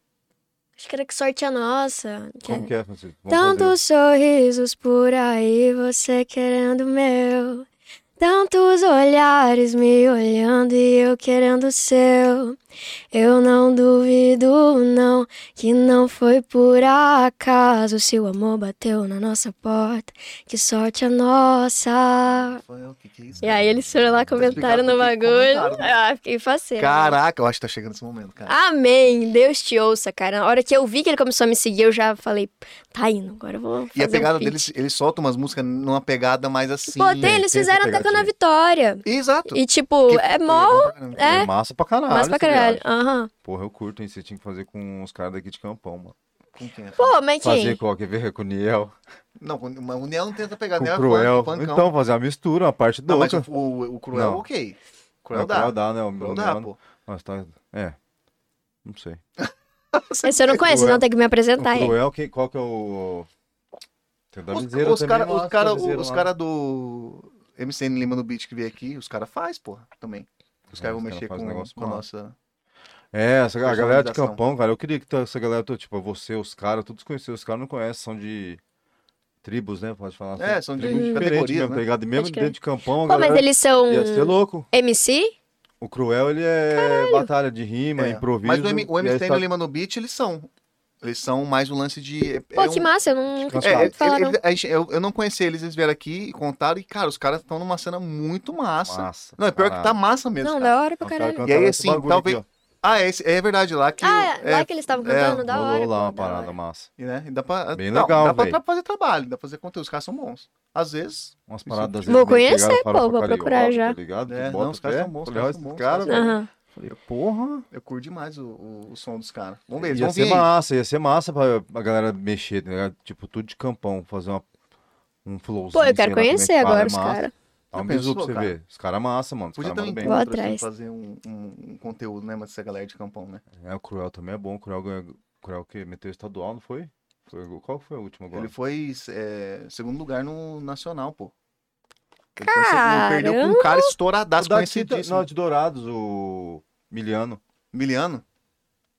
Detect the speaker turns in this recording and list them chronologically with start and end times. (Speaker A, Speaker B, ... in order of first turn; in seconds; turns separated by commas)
Speaker A: 0.8-2.7, Speaker B: 2.5-3.8, Speaker A: 3.3-7.7, Speaker A: 8.2-12.6, Speaker A: 13.1-22.6, Speaker C: 22.3-23.6, Speaker B: 23.4-24.6, Speaker A: 23.4-27.2, Speaker C: 24.3-25.9, Speaker C: 26.8-28.6, Speaker A: 28.5-34.7, Speaker C: 33.9-37.4, Speaker A: 36.9-41.5, Speaker B: 37.2-38.3, Speaker C: 39.0-41.5, Speaker B: 41.2-42.9, Speaker A: 42.1-43.3, Speaker B: 43.4-46.1, Speaker C: 46.5-47.2, Speaker A: 47.0-47.8, Speaker B: 47.4-48.9, Speaker C: 49.4-51.9, Speaker B: 50.8-53.5, Speaker C: 53.1-56.8, Speaker B: 54.1-54.5, Speaker B: 55.3-58.0, Speaker B: 58.8-59.2, Speaker C: 59.4-60.8, Speaker A: 60.2-62.0, Speaker B: 60.6-61.0, Speaker B: 61.6-63.3, Speaker B: 64.3-66.3, Speaker C: 64.5-72.4, Speaker B: 70.7-72.0, Speaker B: 73.1-78.6, Speaker C: 73.6-74.4, Speaker B: 79.4-84.7, Speaker C: 80.4-81.8, Speaker A: 80.8-81.3, Speaker A: 82.2-85.3, Speaker B: 85.8-89.5, Speaker A: 86.7-87.3, Speaker C: 88.0-90.5, Speaker C: 91.0-92.9, Speaker A: 92.5-94.4, Speaker B: 93.4-94.0, Speaker C: 93.6-100.7, Speaker B: 98.8-100.0, Speaker A: 100.4-101.5, Speaker B: 101.0-102.5, Speaker C: 101.4-105.6, Speaker A: 104.0-106.5, Speaker B: 105.3-106.9, Speaker C: 107.0-112.1, Speaker B: 107.7-108.6, Speaker B: 111.5-116.4, Speaker A: 112.1-114.0, Speaker C: 114.3-120.5, Speaker A: 116.1-116.5, Speaker B: 119.8-124.5, Speaker B: 125.2-130.2, Speaker A: 125.7-127.3, Speaker C: 127.7-128.6, Speaker C: 129.6-133.4, Speaker A: 130.0-130.6, Speaker B: 133.6-138.5, Speaker C: 138.3-141.3, Speaker C: 142.4-145.3, Speaker A: 142.4-143.9, Speaker B: 144.4-147.4, Speaker C: 147.7-148.2